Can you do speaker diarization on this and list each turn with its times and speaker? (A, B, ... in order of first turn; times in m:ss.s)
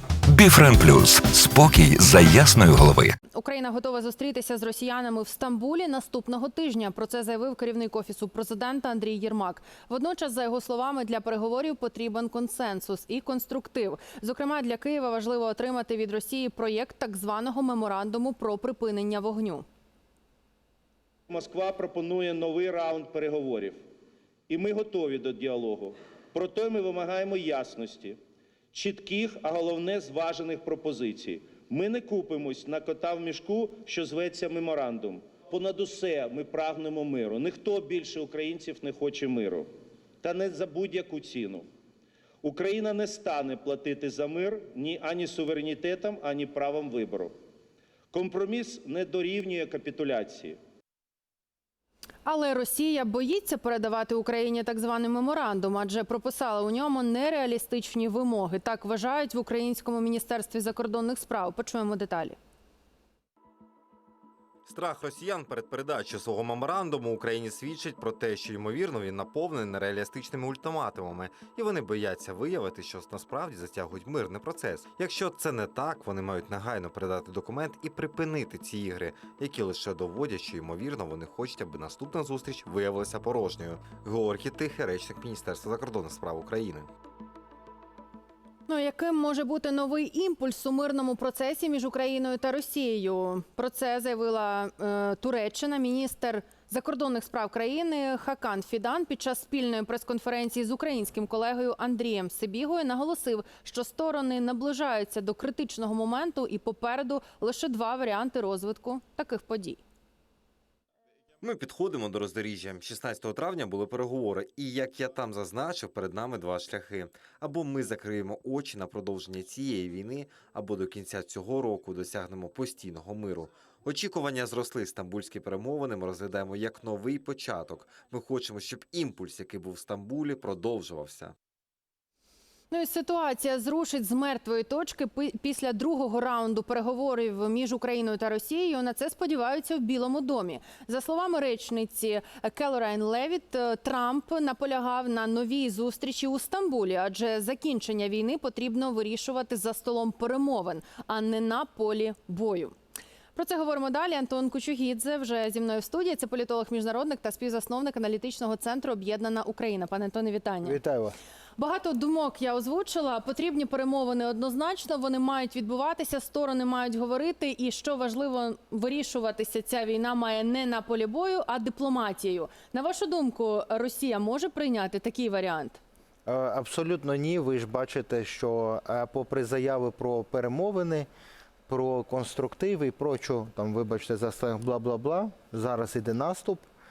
0:00.2-0:03.1 A
0:03.3-0:19.6 B
0:21.3-0:23.8 C
0:24.5-0:28.2 C
0:28.7-0:39.7 C
0:40.2-0:41.6 C
0:42.4-0:47.3 C
0:48.1-0:50.6 C
0:52.2-1:02.4 B
1:04.6-1:26.9 D
1:28.7-1:49.8 B
1:51.4-2:11.3 D
2:12.7-2:32.7 B
2:33.3-2:40.8 B
2:40.6-2:41.2 E
2:41.6-2:55.8 B
2:56.2-3:01.1 E
3:01.7-3:06.6 E